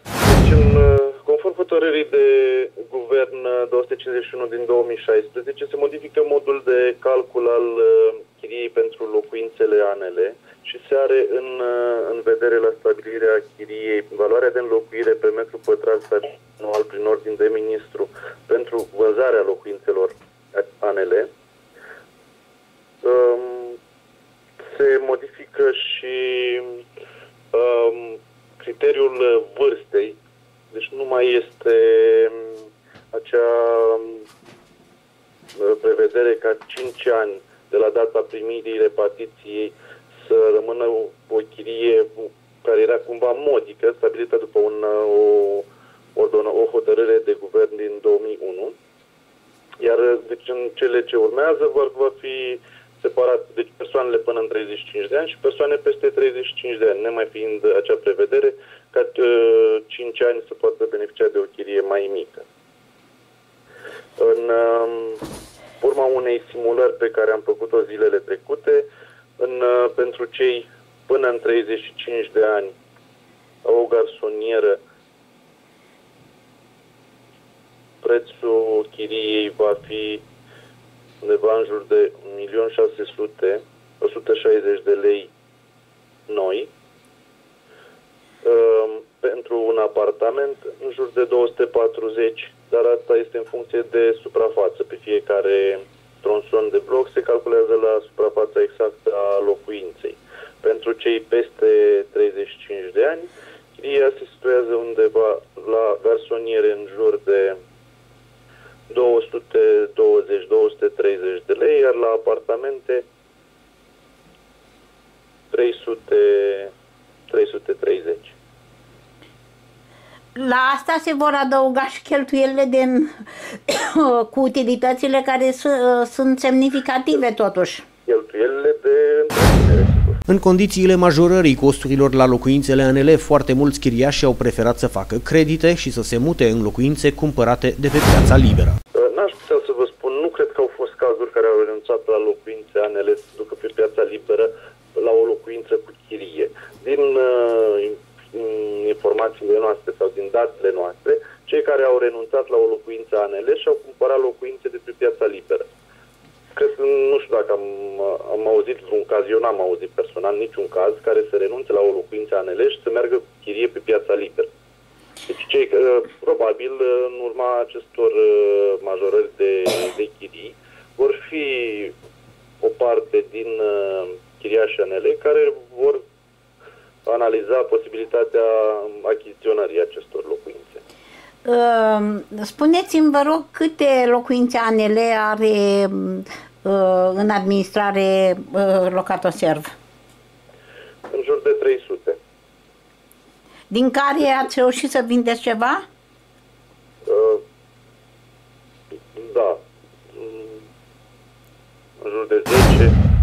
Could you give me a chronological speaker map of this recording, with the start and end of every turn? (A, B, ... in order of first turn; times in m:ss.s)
0:00.2-0:21.3 A
0:23.0-0:23.8 A
0:24.6-0:26.8 A
0:27.5-0:30.2 A
0:30.7-0:34.3 A
0:35.6-0:48.7 A
0:49.8-1:02.5 A
1:04.2-1:05.2 A
1:05.8-1:12.8 A
1:13.6-1:14.8 A
1:18.0-1:20.2 A
1:21.2-1:25.3 A
1:26.3-1:26.7 A
1:28.4-1:47.6 A
1:48.9-1:53.0 A
1:55.5-1:56.7 A
1:57.3-1:58.3 A
2:00.3-2:07.8 B
2:08.1-2:10.2 A
2:10.3-2:18.8 C
2:18.9-2:35.7 A
2:36.5-2:44.5 A
2:45.3-2:51.9 A
2:52.6-2:56.0 A
2:57.0-3:00.8 A
3:01.4-3:09.7 B
3:11.1-3:12.2 A
3:13.7-3:15.8 B
3:17.0-3:17.4 A
3:19.1-3:20.6 A
3:22.0-3:23.0 A